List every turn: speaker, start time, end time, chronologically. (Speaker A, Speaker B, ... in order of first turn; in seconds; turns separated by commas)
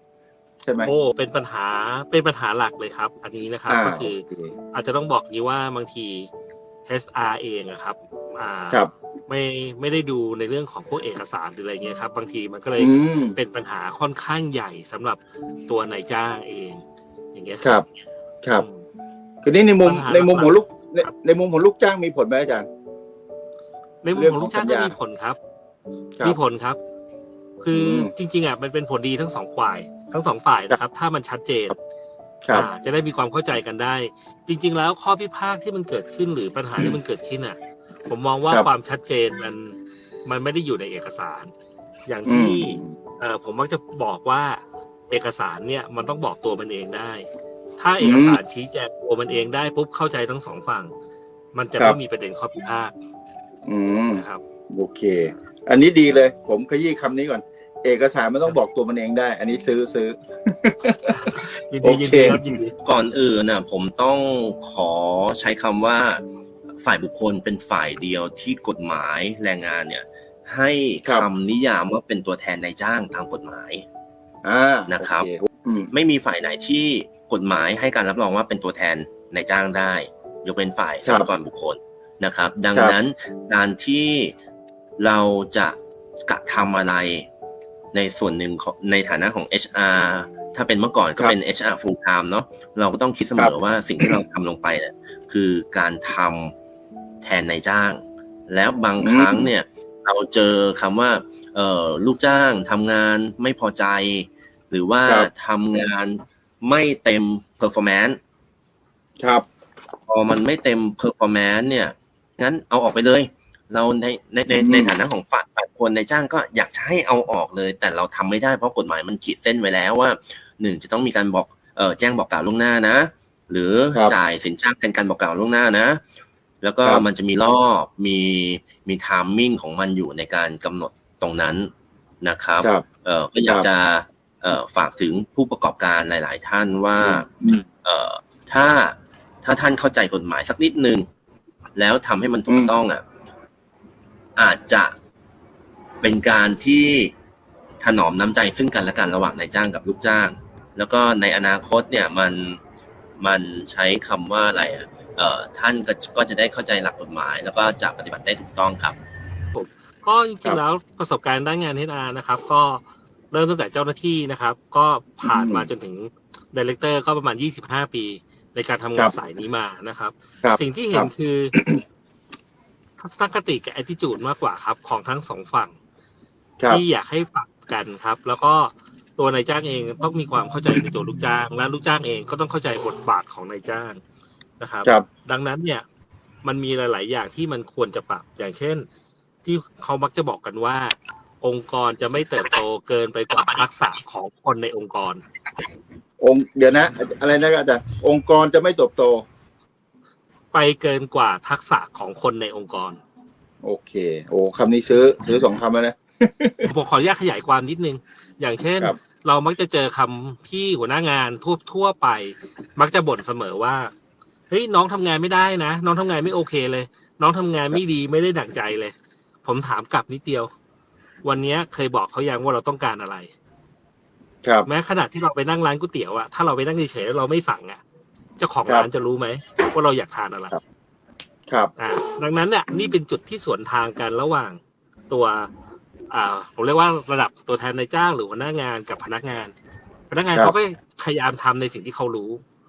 Speaker A: 0.6-0.9, Speaker B: 0.8-6.3, Speaker A: 3.7-4.5, Speaker B: 6.9-16.8, Speaker A: 12.8-13.3, Speaker B: 17.3-17.7, Speaker B: 18.6-18.8, Speaker A: 19.4-22.7, Speaker B: 19.8-21.1, Speaker B: 24.0-25.4, Speaker A: 24.1-24.9, Speaker B: 26.2-26.8, Speaker B: 27.6-31.8, Speaker A: 27.7-28.1, Speaker B: 32.5-41.5, Speaker B: 42.1-47.3, Speaker A: 42.2-42.9, Speaker B: 47.8-50.9, Speaker A: 48.0-48.4, Speaker B: 51.5-52.9, Speaker A: 53.6-62.4, Speaker B: 54.1-54.4, Speaker B: 61.1-62.7, Speaker C: 62.8-66.2, Speaker C: 66.8-73.8, Speaker A: 74.4-75.9, Speaker C: 74.9-75.3, Speaker C: 75.9-84.3, Speaker A: 81.0-81.3, Speaker C: 85.0-87.3, Speaker C: 87.9-96.5, Speaker A: 93.4-94.2, Speaker C: 97.2-108.2, Speaker A: 99.0-99.5, Speaker A: 109.2-109.4, Speaker C: 110.1-126.0, Speaker A: 114.5-114.9, Speaker C: 126.6-137.3, Speaker A: 137.0-137.6, Speaker C: 137.8-141.1, Speaker C: 141.8-143.0, Speaker A: 142.5-142.7, Speaker C: 144.3-144.9, Speaker C: 146.0-147.1, Speaker C: 147.8-152.6, Speaker C: 153.2-159.0, Speaker B: 159.5-171.5, Speaker A: 165.2-165.7, Speaker A: 170.4-171.8, Speaker B: 173.0-175.7, Speaker B: 176.7-184.0, Speaker B: 184.6-185.8, Speaker B: 186.4-188.9, Speaker B: 189.4-195.2, Speaker A: 196.2-199.2, Speaker B: 200.5-203.0, Speaker A: 203.6-206.7, Speaker B: 206.6-213.9, Speaker B: 214.5-220.5, Speaker B: 221.2-223.3, Speaker B: 224.7-227.8, Speaker B: 228.4-230.6, Speaker B: 231.8-234.6, Speaker B: 235.1-235.5, Speaker B: 236.1-239.5, Speaker B: 240.1-242.4